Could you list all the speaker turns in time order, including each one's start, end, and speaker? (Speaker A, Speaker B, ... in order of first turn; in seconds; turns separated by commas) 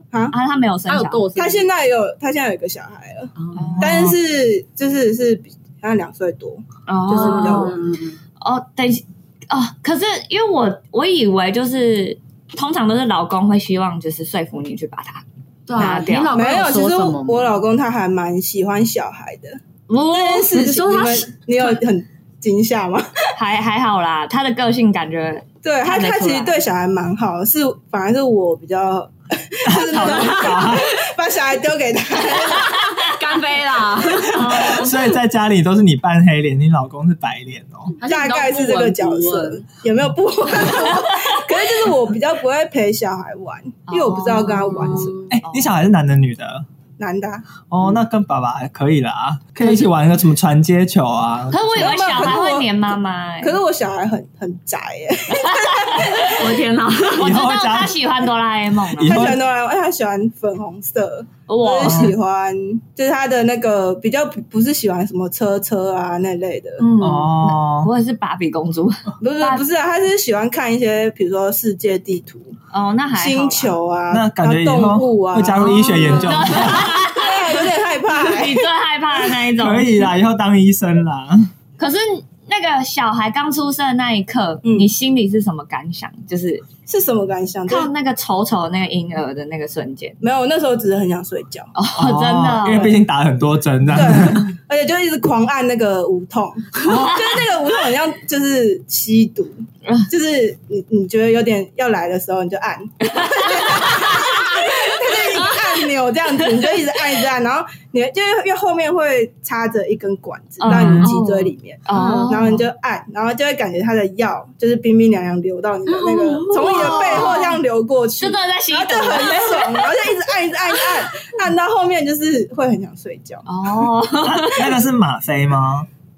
Speaker A: 0.3-1.2, Speaker B: 0.9-1.7, Speaker C: 1.4-7.8, Speaker B: 3.4-3.7, Speaker A: 3.5-4.1, Speaker D: 3.8-4.1, Speaker A: 6.9-7.8, Speaker B: 7.1-8.2, Speaker A: 8.4-15.2, Speaker B: 15.7-17.6, Speaker A: 15.8-16.4, Speaker C: 16.3-19.6, Speaker A: 19.9-20.5, Speaker C: 20.1-23.1, Speaker B: 20.5-21.8, Speaker A: 23.4-26.6, Speaker C: 25.6-32.9, Speaker D: 29.7-30.9, Speaker B: 30.1-30.6, Speaker B: 32.6-34.7, Speaker A: 34.3-35.0, Speaker D: 34.4-38.0, Speaker B: 38.0-39.6, Speaker C: 38.0-45.2, Speaker A: 43.9-45.7, Speaker B: 44.6-45.2, Speaker D: 45.3-46.6, Speaker C: 47.0-47.5, Speaker D: 47.7-52.2, Speaker A: 51.5-53.6, Speaker C: 51.8-52.8, Speaker C: 53.4-56.4, Speaker A: 55.5-56.4, Speaker B: 56.2-57.3, Speaker D: 57.2-58.0, Speaker A: 57.2-59.2, Speaker D: 59.0-59.4, Speaker C: 59.0-66.9, Speaker A: 61.5-62.1, Speaker D: 61.8-62.1, Speaker B: 66.8-67.3, Speaker D: 67.0-67.9, Speaker A: 67.4-69.7, Speaker C: 69.2-72.5, Speaker A: 72.7-73.7, Speaker C: 73.2-76.2, Speaker D: 74.1-77.0, Speaker B: 75.6-76.3, Speaker A: 76.1-80.1, Speaker C: 76.9-78.7, Speaker D: 79.6-81.5, Speaker A: 81.8-86.7, Speaker C: 84.6-84.9, Speaker C: 86.9-87.9, Speaker A: 87.7-90.2, Speaker C: 90.2-91.7, Speaker A: 91.8-93.0, Speaker D: 92.0-94.5, Speaker C: 93.9-123.5, Speaker A: 96.8-97.4, Speaker A: 103.1-105.1, Speaker A: 110.6-112.7, Speaker D: 110.7-111.2, Speaker B: 111.9-112.3, Speaker B: 115.9-117.5, Speaker A: 116.6-117.6, Speaker A: 118.2-120.0, Speaker A: 123.5-124.7, Speaker D: 124.2-125.9